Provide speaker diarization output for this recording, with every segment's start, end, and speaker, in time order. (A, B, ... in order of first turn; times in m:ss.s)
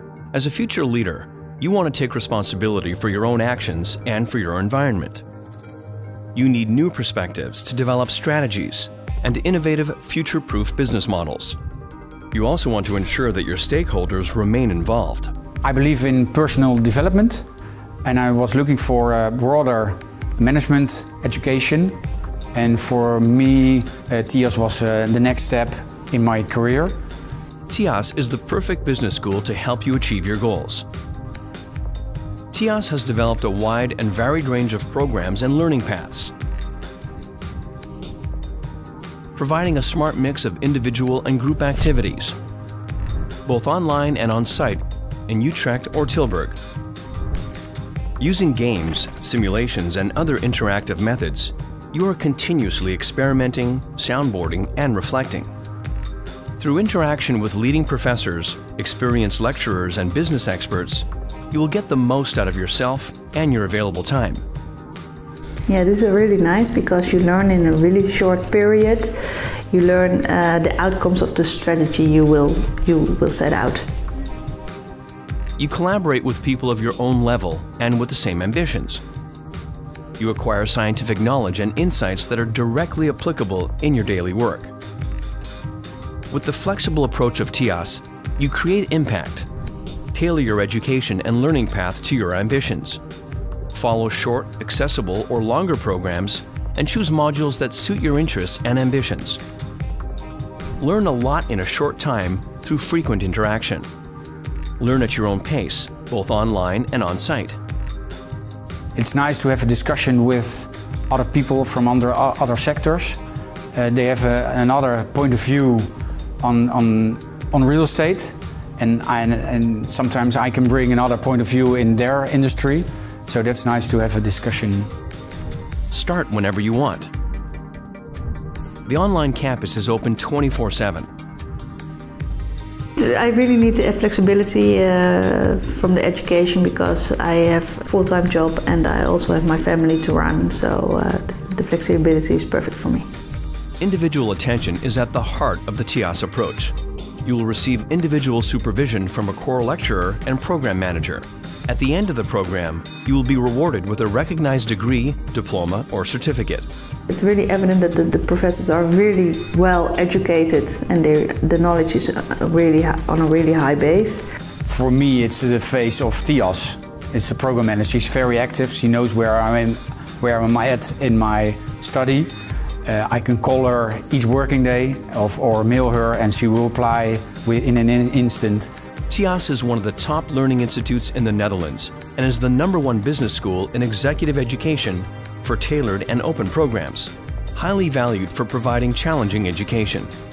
0:00.3-0:05.2 A
0:06.3-0:11.6 A
0:12.3-0:15.3 A
0:15.6-0:17.5 B
0:18.0-0:22.0 B
0:22.5-0:26.9 B
0:27.7-0:30.8 A
0:32.5-0:36.3 A
0:39.3-0:42.4 A
0:43.4-0:46.6 A
0:48.2-0:55.5 A
0:56.6-1:04.4 A
1:05.7-1:13.9 C
1:15.6-1:19.0 A
1:20.2-1:24.7 A
1:26.3-1:29.5 A
1:30.1-1:33.0 A
1:33.7-1:39.4 A
1:40.8-1:43.9 A
1:44.8-1:47.6 A
1:48.9-1:53.2 B
1:53.7-2:04.9 B
2:05.9-2:07.1 A
2:08.8-2:11.1 A
2:13.0-2:23.1 C
2:23.8-2:36.7 A
2:37.1-2:44.3 C
2:44.6-2:58.7 B
2:59.1-3:10.1 A